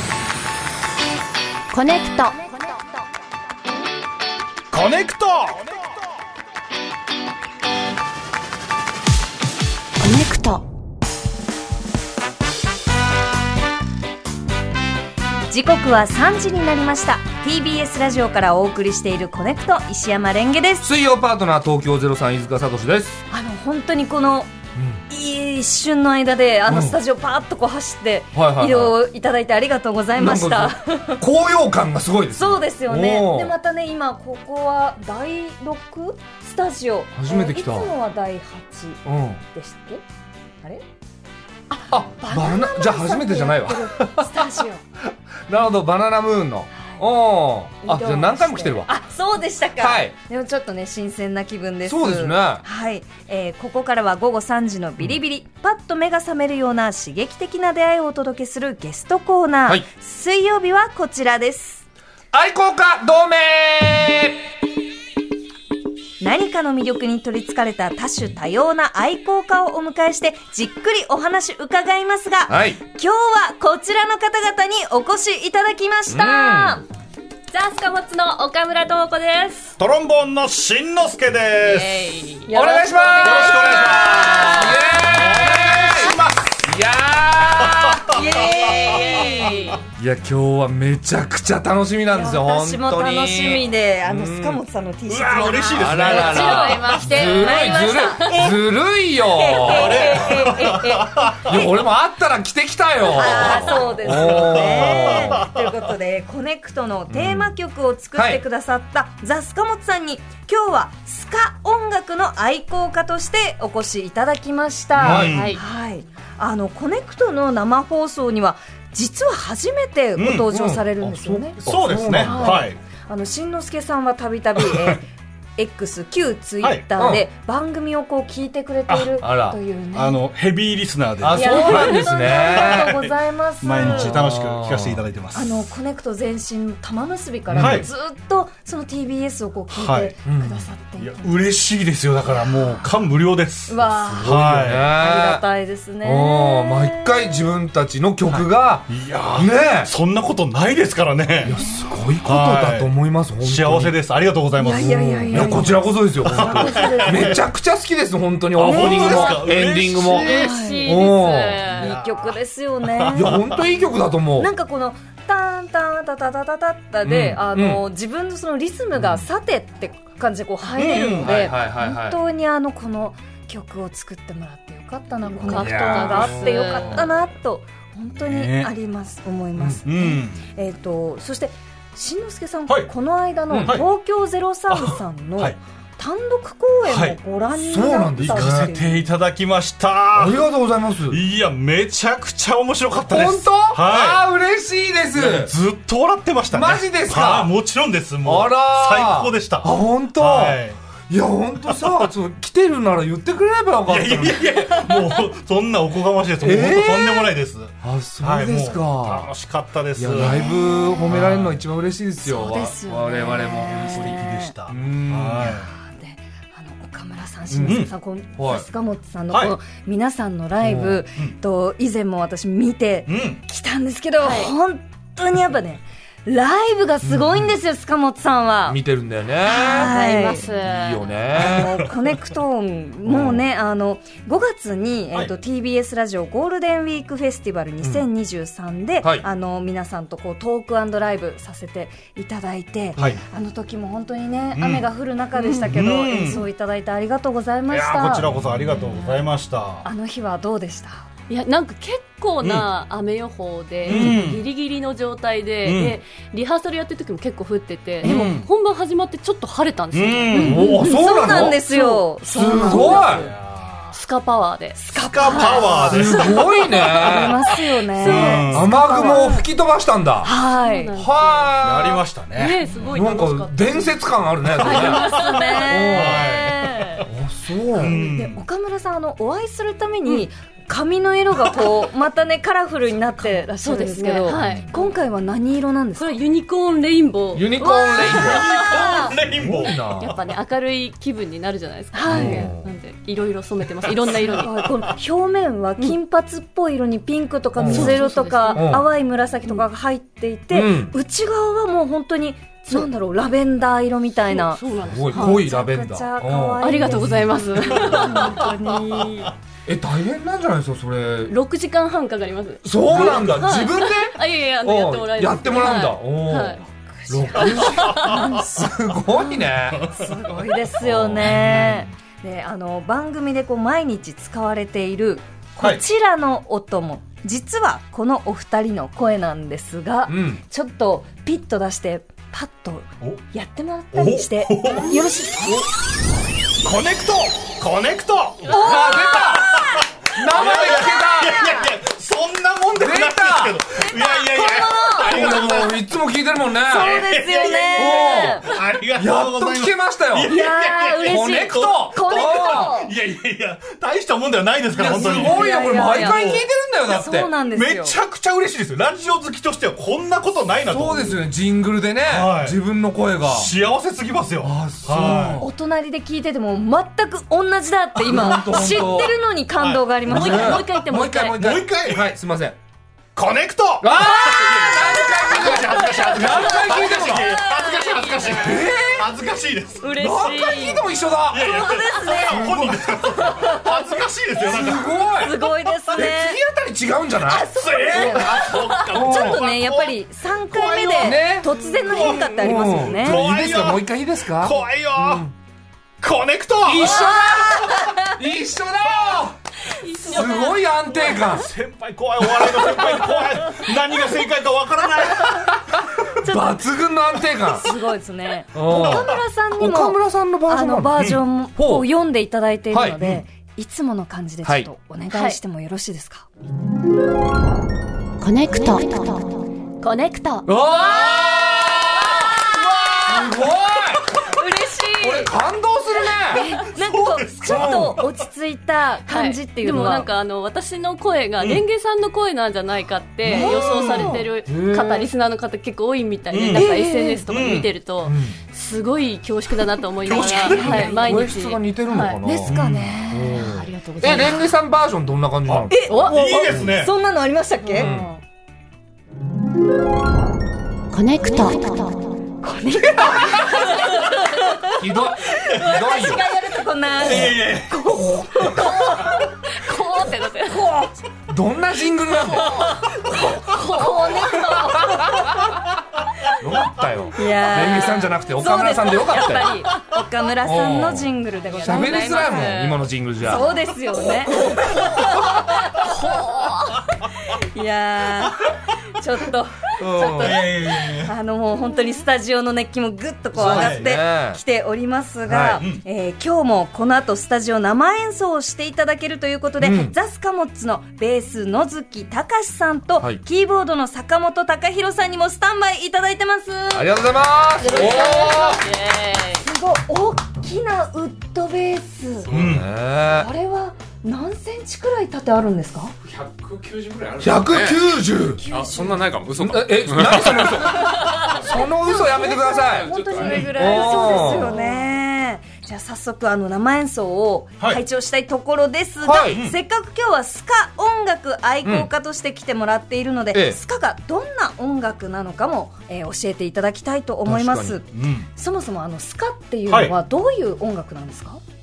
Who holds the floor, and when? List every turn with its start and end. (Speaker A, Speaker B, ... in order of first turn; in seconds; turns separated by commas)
Speaker A: 1.7-2.7, Speaker B: 4.7-5.9, Speaker A: 10.0-10.6, Speaker C: 15.5-20.9, Speaker D: 20.8-23.2, Speaker C: 23.3-24.5, Speaker D: 24.7-25.0, Speaker C: 25.1-31.2, Speaker D: 26.7-27.0, Speaker D: 28.3-28.9, Speaker D: 30.2-33.5, Speaker C: 32.3-39.0, Speaker D: 37.1-37.9, Speaker D: 39.0-39.4, Speaker C: 39.5-40.0, Speaker C: 41.7-44.8, Speaker D: 41.9-48.9, Speaker C: 47.8-61.8, Speaker D: 49.8-50.1, Speaker D: 51.8-52.6, Speaker D: 62.3-64.5, Speaker C: 66.2-76.8, Speaker D: 72.5-72.8, Speaker D: 76.1-76.8, Speaker A: 77.5-79.7, Speaker B: 79.8-82.2, Speaker A: 81.6-82.6, Speaker C: 82.5-84.6, Speaker D: 82.5-88.2, Speaker B: 83.2-86.6, Speaker A: 83.7-86.2, Speaker B: 87.6-89.7, Speaker C: 88.1-89.6, Speaker A: 88.3-89.9, Speaker D: 90.0-94.6, Speaker C: 92.1-98.5, Speaker B: 95.1-96.8, Speaker D: 95.8-100.5, Speaker A: 96.0-98.5, Speaker C: 99.3-101.7, Speaker B: 99.6-101.6, Speaker D: 101.4-105.4, Speaker C: 103.1-121.6, Speaker B: 103.2-105.7, Speaker D: 107.1-107.5, Speaker D: 108.1-108.4, Speaker B: 115.0-115.6, Speaker D: 115.0-115.5, Speaker A: 115.3-115.6, Speaker B: 120.2-120.5, Speaker D: 120.5-122.6, Speaker B: 121.6-122.8, Speaker C: 122.2-130.2, Speaker D: 127.0-127.2, Speaker B: 128.9-129.2, Speaker D: 129.2-129.6, Speaker B: 129.9-135.8, Speaker D: 131.2-133.0, Speaker C: 131.3-134.2, Speaker A: 131.6-132.0, Speaker D: 133.8-135.0, Speaker C: 135.3-141.4, Speaker D: 137.5-137.9, Speaker B: 137.6-137.9, Speaker B: 139.7-140.1, Speaker D: 140.2-140.7, Speaker B: 141.0-144.9, Speaker C: 142.3-142.9, Speaker C: 143.7-147.3, Speaker D: 144.2-145.4, Speaker D: 146.0-149.9, Speaker B: 148.3-151.6, Speaker D: 151.4-153.9, Speaker C: 151.5-151.9, Speaker B: 152.2-155.6, Speaker C: 154.6-157.4, Speaker D: 154.8-161.7, Speaker B: 156.2-157.4, Speaker B: 158.6-160.6, Speaker C: 158.6-159.5, Speaker A: 160.1-161.9, Speaker C: 160.2-161.2, Speaker B: 161.7-163.6, Speaker C: 161.7-163.6, Speaker D: 163.1-164.5, Speaker C: 164.4-189.1, Speaker D: 167.0-167.8, Speaker D: 169.0-169.2, Speaker B: 170.7-171.4, Speaker D: 170.9-172.2, Speaker A: 175.3-177.1, Speaker D: 175.5-177.1, Speaker B: 178.2-178.7, Speaker B: 179.8-180.4, Speaker D: 183.5-183.8, Speaker B: 183.6-183.9, Speaker B: 186.8-187.2, Speaker D: 187.6-188.7, Speaker B: 188.2-190.4, Speaker D: 190.1-191.2, Speaker B: 191.1-194.2, Speaker D: 192.9-195.5, Speaker B: 195.1-200.8, Speaker D: 196.5-197.5, Speaker D: 198.2-204.9, Speaker B: 203.9-211.5, Speaker D: 206.4-209.3, Speaker D: 209.9-215.5, Speaker C: 210.4-211.1, Speaker C: 212.2-214.5, Speaker B: 213.8-215.7, Speaker C: 215.4-228.8, Speaker D: 217.5-218.7, Speaker B: 217.7-217.9, Speaker B: 219.3-219.6, Speaker D: 220.6-221.0, Speaker B: 223.1-223.4, Speaker A: 224.2-224.5, Speaker D: 227.0-227.5, Speaker D: 228.7-229.9, Speaker C: 229.4-230.4, Speaker A: 229.6-231.2, Speaker D: 230.4-231.9, Speaker C: 231.3-248.3, Speaker B: 231.4-231.9, Speaker D: 233.0-233.4, Speaker B: 244.5-244.9, Speaker B: 245.5-246.4, Speaker B: 247.7-249.9, Speaker D: 248.2-248.7, Speaker A: 248.9-249.2, Speaker C: 249.8-251.1, Speaker A: 251.3-260.8, Speaker B: 252.4-252.7, Speaker B: 253.8-254.4, Speaker C: 253.9-254.2, Speaker B: 255.6-256.0, Speaker B: 258.0-258.5, Speaker C: 258.0-258.3, Speaker B: 259.9-260.8, Speaker C: 260.3-263.3, Speaker D: 260.4-261.6, Speaker A: 261.7-262.0, Speaker D: 262.2-263.3, Speaker A: 262.7-263.2, Speaker B: 262.7-263.9, Speaker A: 263.9-266.9, Speaker C: 264.7-266.3, Speaker B: 264.9-266.4, Speaker D: 265.9-267.4, Speaker C: 266.9-269.3, Speaker B: 268.0-268.7, Speaker A: 268.0-269.4, Speaker D: 268.5-270.3, Speaker C: 270.2-270.9, Speaker A: 270.3-271.7, Speaker D: 270.9-272.0, Speaker B: 271.6-272.6, Speaker A: 272.3-274.0, Speaker D: 272.7-276.2, Speaker A: 274.6-275.4, Speaker C: 274.6-277.1, Speaker B: 274.6-277.1, Speaker D: 277.1-278.0, Speaker B: 277.7-278.4, Speaker C: 277.8-286.2, Speaker A: 283.2-284.9, Speaker D: 284.3-284.7, Speaker A: 286.0-289.1, Speaker D: 287.3-290.2, Speaker C: 287.6-289.1, Speaker B: 288.0-289.9, Speaker A: 289.9-294.7, Speaker C: 291.9-292.5, Speaker D: 292.1-292.6, Speaker C: 294.3-309.1, Speaker D: 297.6-298.9, Speaker A: 297.7-298.8, Speaker D: 300.5-300.9, Speaker A: 304.3-305.4, Speaker D: 304.8-308.2, Speaker A: 306.6-309.3, Speaker D: 309.6-311.3, Speaker A: 311.3-316.6, Speaker D: 312.6-319.9, Speaker B: 312.9-313.6, Speaker C: 316.9-335.7, Speaker A: 317.5-318.1, Speaker B: 317.9-318.2, Speaker B: 319.7-320.1, Speaker D: 320.8-321.8, Speaker B: 321.3-321.8, Speaker D: 330.1-330.4, Speaker B: 333.9-335.0, Speaker B: 336.6-345.8, Speaker C: 338.5-341.7, Speaker D: 338.5-341.6, Speaker D: 342.7-343.6, Speaker C: 343.7-345.3, Speaker D: 345.0-347.0, Speaker C: 346.7-348.5, Speaker B: 346.7-356.5, Speaker D: 347.7-350.4, Speaker C: 350.2-352.9, Speaker D: 351.0-352.8, Speaker D: 354.7-357.3, Speaker C: 354.9-356.4, Speaker C: 356.9-358.0, Speaker B: 357.5-361.2, Speaker D: 360.6-363.5, Speaker B: 362.0-362.6, Speaker B: 363.2-365.4, Speaker D: 364.4-365.5, Speaker C: 365.4-370.6, Speaker D: 368.1-369.1, Speaker B: 368.1-369.0, Speaker B: 369.6-370.8, Speaker A: 370.1-371.4, Speaker D: 370.1-372.6, Speaker B: 371.3-372.1, Speaker B: 373.1-379.9, Speaker D: 373.8-377.4, Speaker C: 374.0-378.9, Speaker A: 375.9-378.6, Speaker D: 378.3-379.1, Speaker C: 379.8-386.4, Speaker D: 380.0-381.7, Speaker B: 381.3-385.8, Speaker D: 382.3-382.9, Speaker D: 384.4-385.4, Speaker D: 385.9-388.2, Speaker C: 387.2-393.2, Speaker B: 387.5-395.3, Speaker A: 388.3-388.6, Speaker D: 388.9-389.4, Speaker D: 391.0-395.3, Speaker B: 396.0-397.9, Speaker D: 396.6-399.3, Speaker C: 396.8-398.2, Speaker B: 398.9-399.3, Speaker A: 399.7-401.4, Speaker D: 400.0-401.5, Speaker B: 400.9-405.7, Speaker D: 405.7-407.7, Speaker C: 406.2-406.7, Speaker C: 407.4-416.3, Speaker D: 408.5-411.9, Speaker B: 408.8-409.1, Speaker D: 412.7-413.0, Speaker A: 415.1-415.4, Speaker A: 418.2-422.7, Speaker D: 420.4-424.4, Speaker C: 424.3-425.3, Speaker D: 425.0-426.5, Speaker C: 426.3-430.1, Speaker B: 426.6-428.1, Speaker D: 427.4-428.0, Speaker A: 429.1-442.2, Speaker C: 433.2-434.2, Speaker B: 433.4-434.0, Speaker D: 434.4-435.1, Speaker B: 436.3-436.7, Speaker C: 436.5-437.2, Speaker B: 437.3-437.7, Speaker D: 438.0-438.4, Speaker B: 440.0-441.0, Speaker C: 440.5-441.0, Speaker D: 440.6-445.7, Speaker C: 442.2-443.5, Speaker B: 442.4-442.9, Speaker A: 443.3-444.5, Speaker B: 445.5-446.9, Speaker C: 445.7-447.9, Speaker A: 445.9-446.6, Speaker A: 447.6-448.2, Speaker D: 447.8-448.1, Speaker A: 450.9-452.0, Speaker C: 452.4-459.5, Speaker D: 453.0-453.6, Speaker D: 454.8-456.3, Speaker B: 457.0-458.0, Speaker A: 458.6-460.7, Speaker C: 460.5-460.9, Speaker D: 461.3-462.6, Speaker A: 462.2-465.0, Speaker C: 462.3-465.4, Speaker D: 464.7-465.5, Speaker D: 466.3-469.7, Speaker C: 467.1-472.6, Speaker D: 470.4-473.5, Speaker A: 471.5-473.5, Speaker C: 473.2-476.0, Speaker D: 474.3-475.4, Speaker A: 474.3-476.9, Speaker C: 477.2-497.1, Speaker D: 479.8-480.5, Speaker B: 480.2-481.1, Speaker B: 483.3-483.9, Speaker D: 483.3-484.4, Speaker D: 485.2-485.6, Speaker B: 485.6-485.8, Speaker D: 489.6-489.9, Speaker D: 496.7-498.6, Speaker A: 497.6-499.4, Speaker C: 497.7-498.1, Speaker C: 499.4-502.3, Speaker E: 502.3-502.6, Speaker B: 502.3-502.7, Speaker D: 502.3-503.3, Speaker C: 503.0-505.9, Speaker E: 506.0-511.7, Speaker D: 507.2-508.4, Speaker C: 508.1-509.2, Speaker D: 509.4-514.6, Speaker C: 510.7-531.4, Speaker E: 512.7-513.9, Speaker A: 513.8-514.9, Speaker D: 519.0-519.4, Speaker B: 519.3-519.6, Speaker D: 521.6-521.9, Speaker D: 523.3-523.6, Speaker D: 527.2-527.8, Speaker B: 527.9-528.3, Speaker B: 529.7-530.0